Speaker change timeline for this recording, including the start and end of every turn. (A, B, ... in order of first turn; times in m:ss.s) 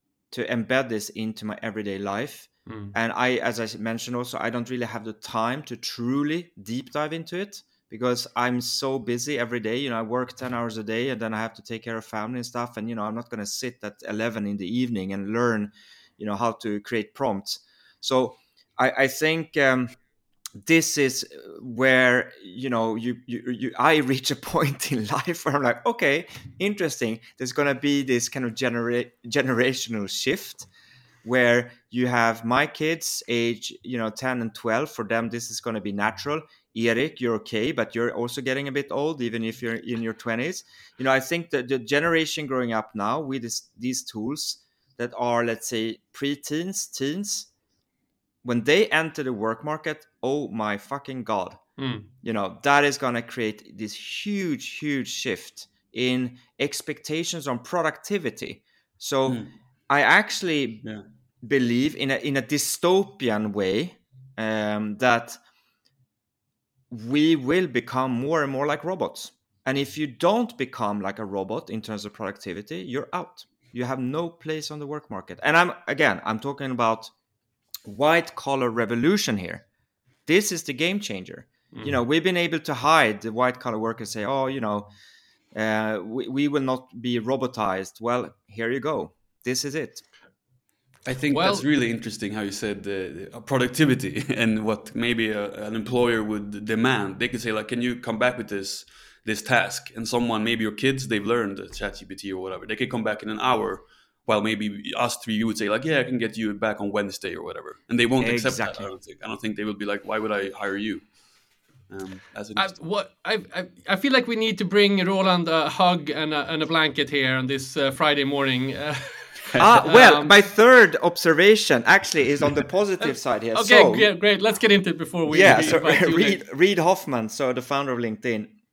0:00.3-0:20.0 A
0:02.7-0:02.9 B
0:20.6-0:30.7 A
0:31.2-0:47.5 A
0:48.4-0:51.6 A
0:51.8-0:52.1 B
0:52.2-1:00.8 A
1:01.4-1:05.4 A
1:06.9-1:17.1 A
1:17.8-1:19.6 A
1:20.2-1:24.9 A
1:21.7-1:22.0 B
1:25.5-1:30.0 A
1:31.0-1:51.2 C
1:31.3-1:31.6 B
1:48.2-1:48.9 A
1:51.9-1:52.8 C
1:52.6-2:00.3 B
1:59.6-2:04.1 A
2:03.0-2:06.4 B
2:05.3-2:08.5 A